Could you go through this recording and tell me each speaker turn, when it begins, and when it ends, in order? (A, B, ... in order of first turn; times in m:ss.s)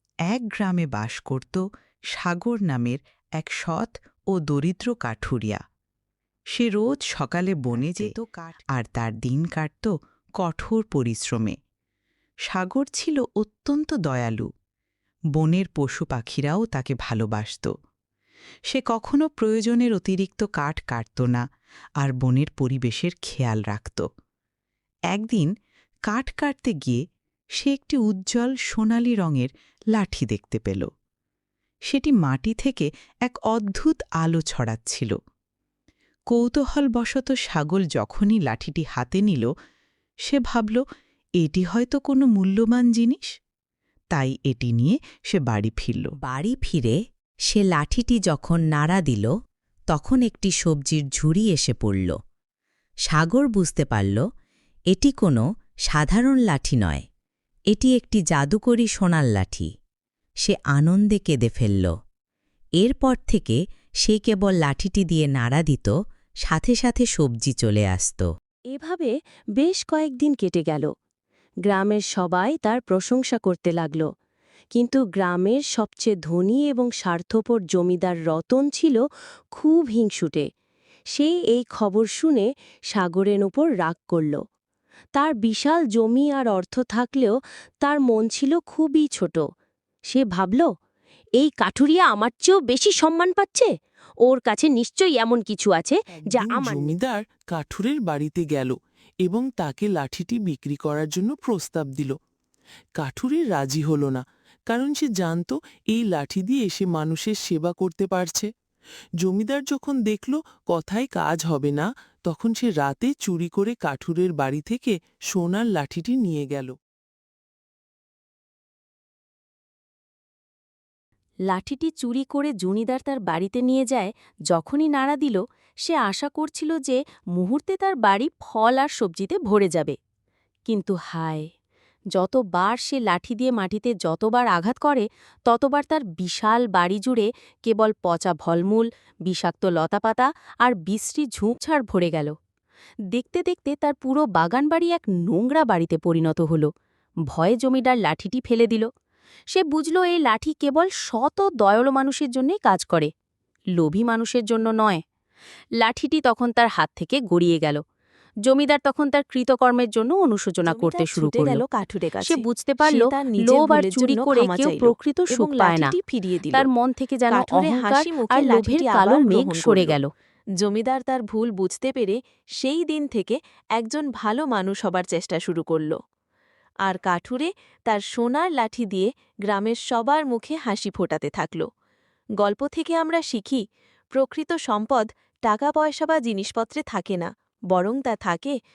0:00.3-0:01.6 A
0:02.1-0:05.6 A
0:06.5-0:09.9 A
0:10.4-0:11.6 A
0:12.5-0:14.5 A
0:15.4-0:17.7 A
0:18.7-0:21.4 A
0:22.0-0:24.0 A
0:25.1-0:25.5 A
0:26.1-0:27.0 A
0:27.6-0:30.9 A
0:31.9-0:35.2 A
0:36.3-0:39.5 A
0:40.3-0:40.8 A
0:41.4-0:43.3 A
0:44.1-0:46.1 A
0:46.2-0:47.0 B
0:47.5-0:49.3 B
0:49.9-0:52.1 B
0:53.1-0:54.2 B
0:54.9-0:57.0 B
0:57.7-0:59.7 B
1:00.4-1:01.9 B
1:02.8-1:05.9 B
1:06.4-1:08.3 B
1:09.6-1:10.5 C
1:10.4-1:10.8 D
1:11.7-1:14.0 D
1:14.7-1:19.0 D
1:19.5-1:20.4 D
1:21.1-1:24.4 D
1:25.1-1:29.4 D
1:30.1-1:30.6 D
1:31.4-1:33.7 D
1:34.2-1:36.8 D
1:36.2-1:42.1 E
1:43.0-1:48.5 E
1:49.2-1:56.7 E
2:01.5-2:10.0 D
2:10.7-2:11.5 D
2:12.1-2:22.3 D
2:23.1-2:26.7 D
2:27.3-2:28.9 D
2:29.5-2:33.1 D
2:33.8-2:35.0 D
2:35.8-2:37.8 D
2:38.4-2:41.6 D
2:40.6-2:46.7 C
2:42.2-2:45.9 D
2:46.5-2:50.1 D
2:47.3-2:50.0 C
2:50.6-2:56.0 C
2:56.8-3:01.6 C
3:02.4-3:03.6 C
3:04.1-3:08.5 C